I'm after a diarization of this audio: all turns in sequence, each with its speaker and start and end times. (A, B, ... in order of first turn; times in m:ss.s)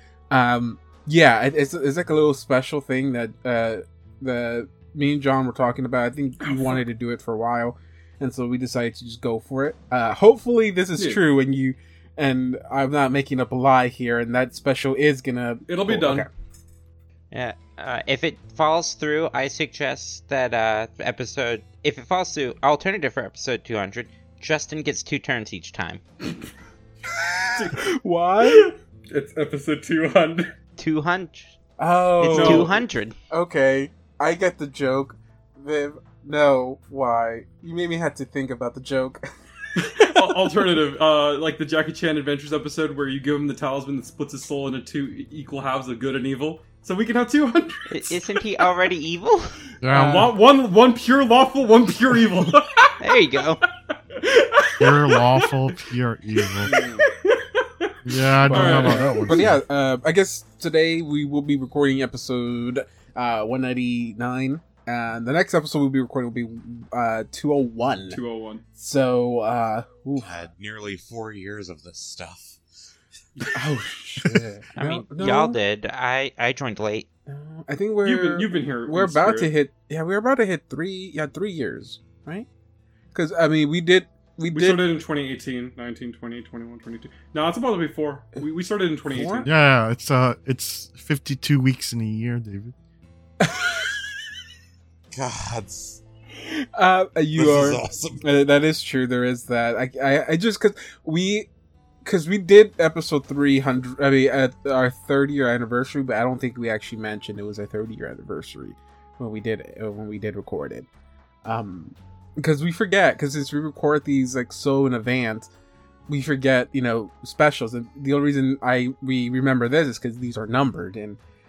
0:00.3-0:16.3 A
0:11.0-0:11.2 B
0:15.7-0:16.3 B
0:17.3-0:26.0 C
0:27.0-0:28.7 A
0:27.5-0:27.8 B
0:28.4-0:30.5 B
0:30.8-0:31.5 C
0:31.8-0:39.2 A
0:32.2-0:33.1 C
0:32.2-0:32.8 B
0:39.8-0:48.2 B
0:39.8-0:40.3 A
0:47.9-0:49.6 C
0:49.8-0:50.2 D
0:49.9-0:53.0 B
0:49.9-0:50.3 A
0:53.0-0:53.6 C
0:54.1-0:55.8 B
0:54.8-0:56.7 D
0:56.4-0:57.9 B
0:58.0-0:59.6 D
0:58.4-0:59.4 B
0:58.4-1:08.2 A
1:08.1-1:08.6 B
1:08.8-1:10.4 A
1:10.2-1:12.6 E
1:13.4-1:13.6 B
1:13.5-1:15.6 A
1:14.8-1:17.1 C
1:17.3-1:22.5 A
1:18.0-1:19.5 B
1:23.1-1:24.8 A
1:24.5-1:29.5 B
1:29.1-1:29.5 A
1:29.4-1:32.7 D
1:33.4-1:34.0 A
1:35.1-1:36.0 E
1:36.4-1:41.5 A
1:37.4-1:38.2 E
1:42.0-1:50.9 A
1:51.4-1:55.5 A
1:56.1-2:01.2 A